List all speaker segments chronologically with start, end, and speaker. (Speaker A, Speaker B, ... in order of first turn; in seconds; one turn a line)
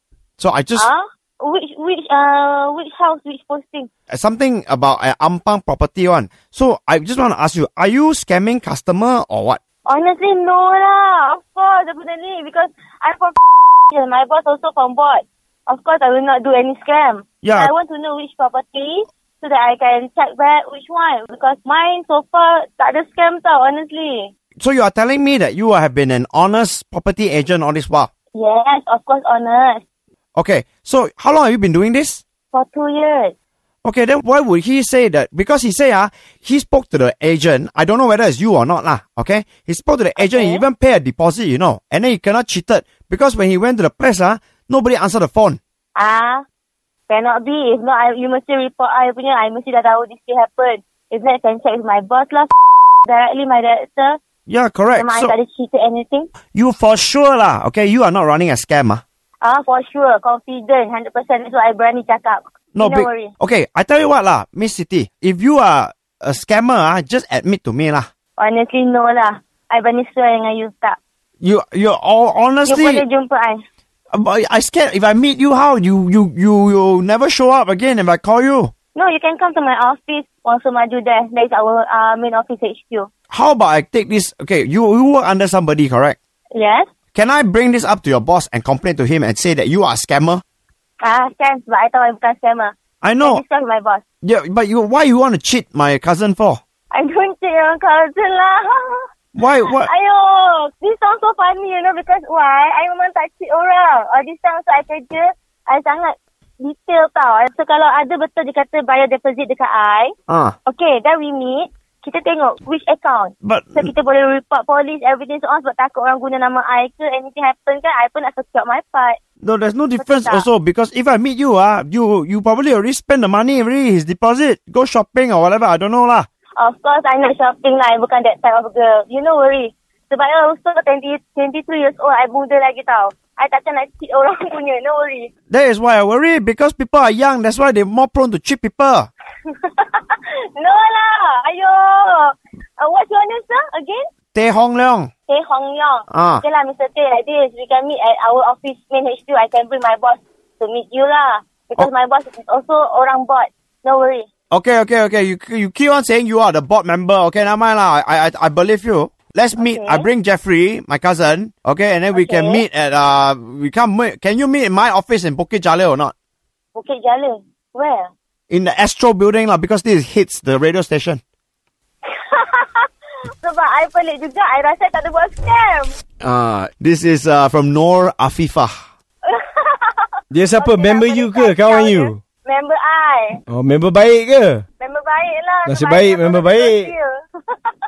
Speaker A: 0.4-0.9
Speaker B: 0.8-3.9
Speaker A: 4.1-9.6
Speaker B: 9.8-13.4
Speaker B: 13.9-24.3
Speaker A: 17.4-17.7
Speaker A: 24.6-28.1
Speaker B: 28.3-29.8
Speaker A: 30.4-32.2
Speaker B: 32.5-33.3
Speaker A: 33.8-45.6
Speaker B: 40.2-40.6
Speaker B: 46.0-46.4
Speaker B: 47.1-52.5
Speaker B: 53.1-54.2
Speaker A: 54.5-55.3
Speaker B: 54.9-56.3
Speaker A: 56.5-59.0
Speaker B: 59.4-63.3
Speaker A: 62.7-68.1
Speaker B: 68.4-71.0
Speaker A: 71.4-73.0
Speaker B: 72.7-73.6
Speaker A: 74.1-78.7
Speaker B: 78.9-83.1
Speaker A: 83.3-86.2
Speaker B: 86.5-86.9
Speaker A: 87.1-90.4
Speaker B: 91.0-94.0
Speaker A: 93.0-93.4
Speaker A: 94.2-96.6
Speaker B: 96.9-99.0
Speaker A: 99.3-99.9
Speaker B: 99.8-110.1
Speaker A: 110.3-110.5
Speaker B: 110.7-119.2
Speaker A: 113.4-113.9
Speaker A: 119.4-126.3
Speaker B: 120.0-120.5
Speaker B: 126.6-135.3
Speaker A: 135.5-139.1
Speaker B: 139.5-144.0
Speaker A: 144.3-145.1
Speaker B: 145.3-154.2
Speaker A: 146.1-146.4
Speaker A: 154.5-166.1
Speaker B: 159.6-160.1
Speaker B: 162.1-162.6
Speaker B: 166.7-168.1
Speaker A: 168.5-171.2
Speaker B: 172.1-172.9
Speaker B: 173.4-176.0
Speaker A: 176.3-178.7
Speaker B: 179.2-183.4
Speaker C: 180.3-182.2
Speaker C: 183.5-184.6
Speaker B: 184.8-187.8
Speaker C: 185.6-186.9